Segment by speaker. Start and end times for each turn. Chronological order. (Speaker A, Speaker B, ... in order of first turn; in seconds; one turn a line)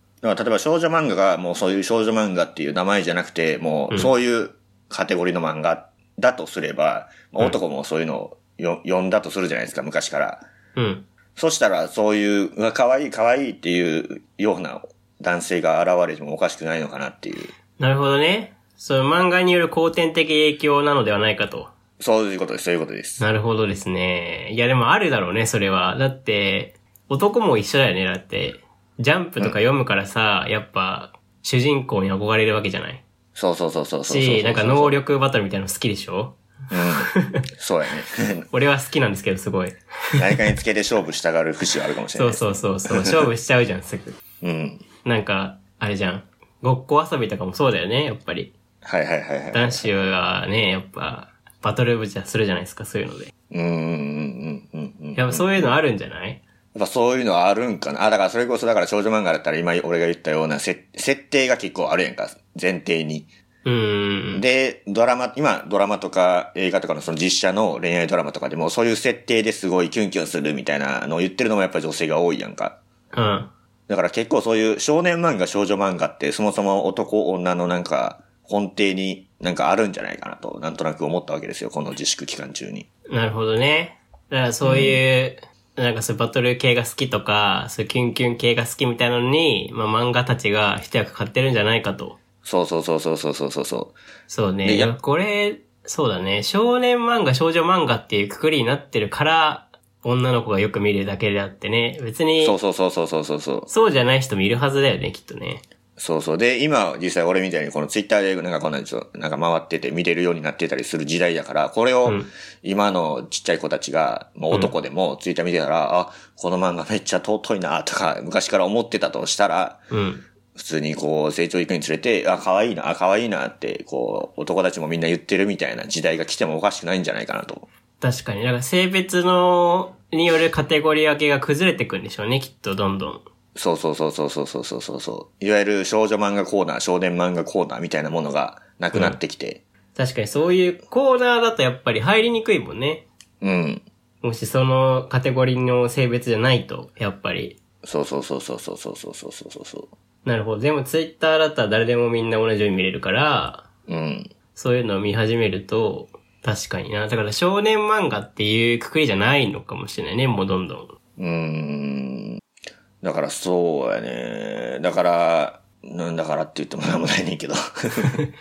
Speaker A: 0.2-10.4
Speaker B: 10.8-11.1
Speaker A: 11.4-17.5
Speaker B: 17.8-21.7
Speaker A: 22.0-23.2
Speaker B: 23.2-33.0
Speaker A: 33.4-35.0
Speaker B: 34.1-36.4
Speaker A: 36.7-38.5
Speaker B: 37.1-37.4
Speaker B: 38.5-40.3
Speaker A: 40.2-43.2
Speaker B: 42.1-44.2
Speaker A: 44.4-44.9
Speaker B: 45.0-48.5
Speaker A: 48.8-50.0
Speaker B: 49.5-53.3
Speaker A: 53.5-55.7
Speaker B: 55.1-56.4
Speaker A: 56.7-63.3
Speaker B: 63.6-64.5
Speaker A: 64.3-72.8
Speaker B: 73.1-73.5
Speaker A: 73.9-82.9
Speaker B: 83.1-92.2
Speaker A: 84.6-85.0
Speaker A: 92.4-94.0
Speaker B: 94.3-102.6
Speaker A: 94.6-95.0
Speaker A: 102.4-103.7
Speaker B: 103.7-105.6
Speaker A: 106.0-119.8
Speaker B: 119.9-120.2
Speaker A: 120.5-127.7
Speaker B: 128.0-133.2
Speaker A: 133.6-139.6
Speaker B: 138.9-139.2
Speaker B: 139.9-143.1
Speaker A: 143.4-143.8
Speaker B: 144.2-147.6
Speaker A: 147.8-149.9
Speaker B: 150.2-153.7
Speaker A: 153.9-154.3
Speaker B: 154.6-160.9
Speaker A: 161.2-162.4
Speaker A: 163.0-168.2